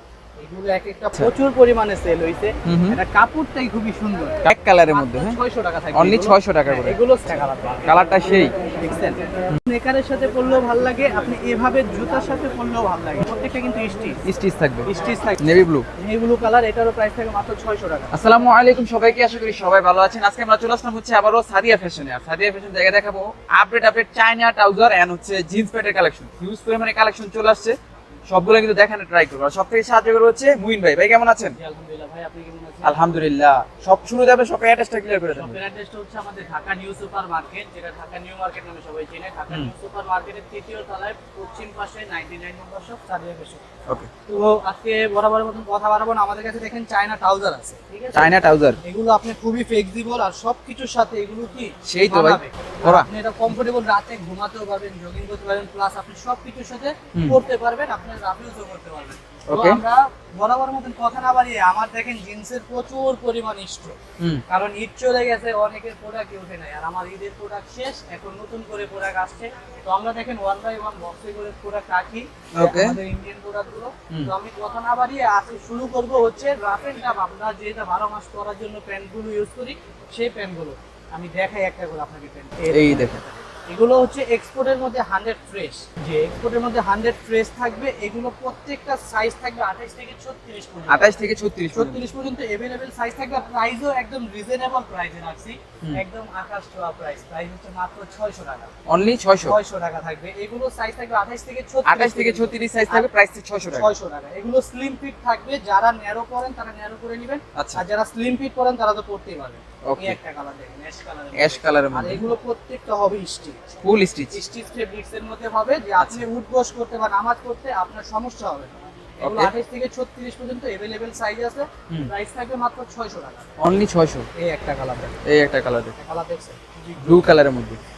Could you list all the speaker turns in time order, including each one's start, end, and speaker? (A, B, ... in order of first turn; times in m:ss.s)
0:00.4-0:08.2 A
0:02.6-0:03.0 B
0:04.4-0:05.4 B
0:05.9-0:07.0 B
0:07.9-0:08.5 B
0:08.8-0:14.2 A
0:14.2-0:15.9 B
0:14.8-0:18.1 A
0:18.1-0:27.8 B
0:28.3-0:31.6 B
0:31.5-0:33.0 A
0:32.8-0:35.6 B
0:35.3-0:43.6 A
0:44.3-1:04.0 A
0:48.1-0:48.8 B
0:51.8-0:53.1 B
0:59.5-0:59.8 B
1:04.5-1:38.7 A
1:12.5-1:13.0 B
1:22.7-1:23.2 B
1:30.9-1:32.0 B
1:38.9-1:39.6 B
1:39.4-1:43.1 A
1:41.8-1:43.9 B
1:43.7-1:53.7 A
1:47.6-1:47.8 B
1:49.8-1:50.2 B
1:51.4-1:52.3 B
1:53.8-1:54.4 B
1:54.3-2:03.5 A
1:56.0-1:56.2 B
1:59.2-1:59.5 B
2:03.6-2:04.3 B
2:04.4-2:05.1 A
2:05.2-2:05.9 B
2:06.0-2:07.2 A
2:07.0-2:07.8 B